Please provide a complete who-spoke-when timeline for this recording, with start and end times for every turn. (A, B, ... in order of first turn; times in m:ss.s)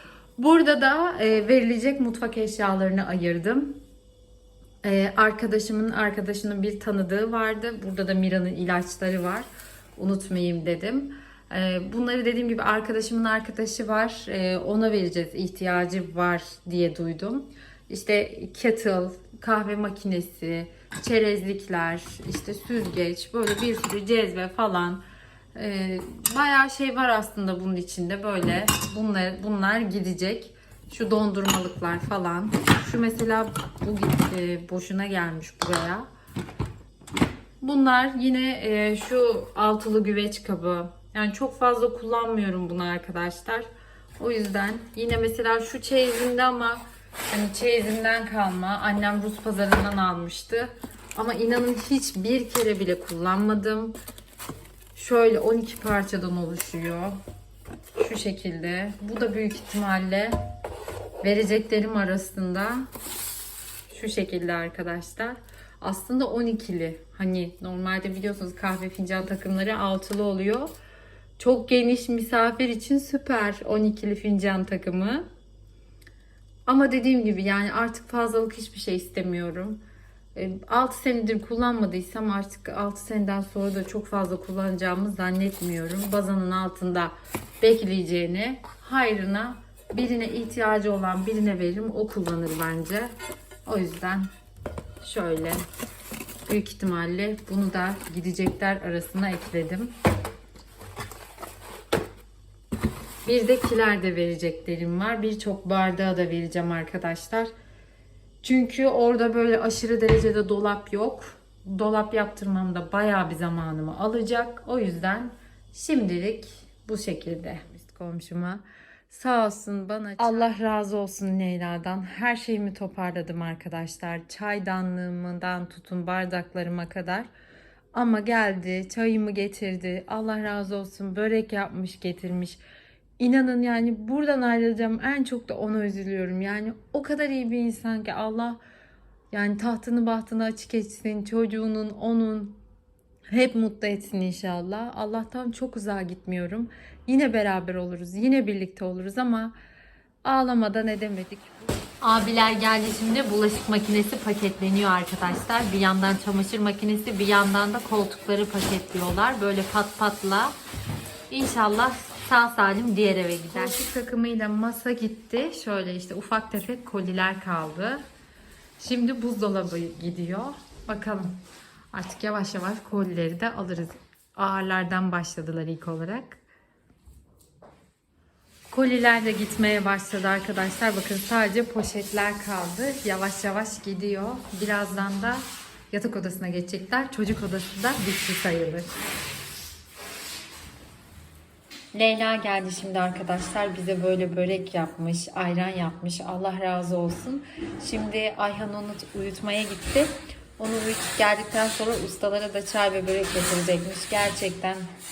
0:00.4-0:03.8 A
0:04.8-0:36.1 A
0:37.6-0:53.9 A
0:54.9-0:57.2 A
0:58.0-1:00.4 A
1:01.2-1:02.9 A
1:03.9-1:10.7 A
1:11.4-1:15.2 A
1:16.6-1:19.8 A
1:20.3-1:33.1 A
1:33.6-1:34.3 A
1:35.0-1:35.6 A
1:36.4-1:39.9 A
1:43.2-1:47.5 A
1:48.4-2:07.3 A
2:07.9-2:12.6 A
2:13.2-2:18.6 A
2:19.3-2:22.6 A
2:23.3-2:29.5 A
2:30.2-2:40.5 A
2:41.3-2:48.0 A
2:48.8-2:51.4 A
2:51.9-2:56.4 A
2:58.7-3:09.0 A
3:11.9-3:24.9 A